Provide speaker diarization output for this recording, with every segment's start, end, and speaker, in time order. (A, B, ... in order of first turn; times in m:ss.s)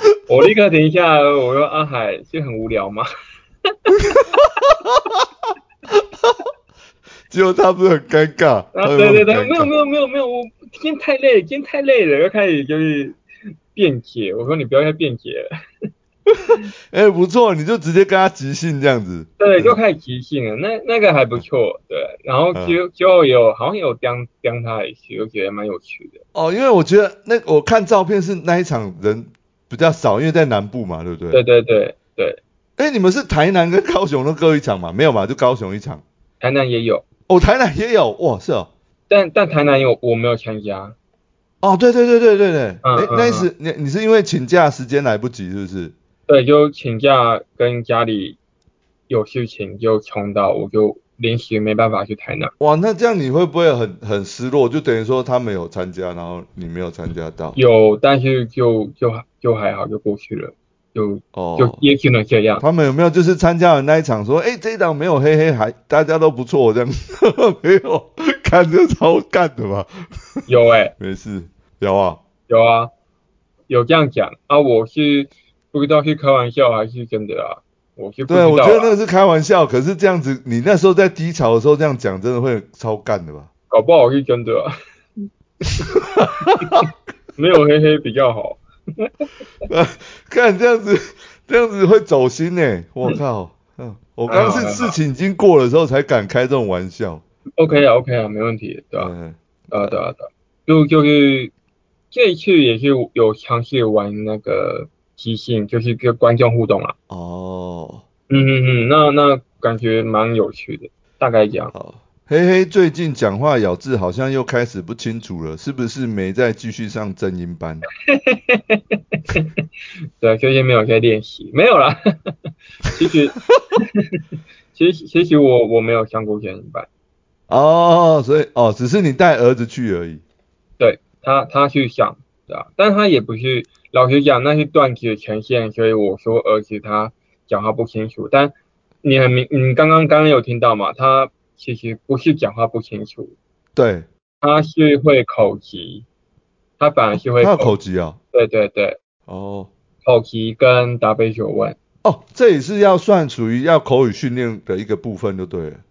0:00.3-0:03.1 A
0:04.8-0:05.2 B
0:05.9-0:06.4 B
0:07.3-0:09.7 B
0:08.8-0:13.2 A
0:13.7-0:15.5 A
0:16.3-0:19.8 B
0:19.4-0:26.2 A
0:26.3-0:31.4 B
0:31.3-0:32.4 A
0:32.8-0:36.0 B
0:36.4-0:37.0 A
0:37.3-0:38.7 B
0:39.1-0:41.0 A
0:41.6-0:46.0 B
0:42.8-0:43.5 A
0:46.3-0:48.4 A
0:49.1-0:52.5 A
0:52.6-0:57.6 B
0:57.6-1:02.6 A
1:01.3-1:01.8 B
1:02.6-1:10.5 B
1:10.5-1:10.9 A
1:11.0-1:12.2 B
1:12.5-1:12.9 A
1:13.7-1:18.9 A
1:18.3-1:23.5 B
1:23.7-1:24.7 A
1:25.8-1:26.8 A
1:26.0-1:26.8 B
1:27.4-1:29.1 A
1:29.7-1:37.2 B
1:34.3-1:35.0 A
1:37.6-1:39.1 A
1:39.0-1:40.0 B
1:39.7-1:41.5 A
1:42.1-1:47.0 A
1:47.1-1:48.0 B
1:48.3-1:51.7 A
1:51.7-1:57.9 B
1:58.1-1:59.6 A
2:00.2-2:02.4 A
2:02.9-2:04.2 A
2:04.7-2:06.9 A
2:07.5-2:10.2 B
2:10.8-2:23.4 A
2:23.8-2:24.1 B
2:24.4-2:26.0 A
2:26.8-2:27.8 A
2:27.4-2:28.2 B
2:28.3-2:29.0 A
2:29.3-2:29.7 B
2:30.0-2:31.8 A
2:32.0-2:35.8 B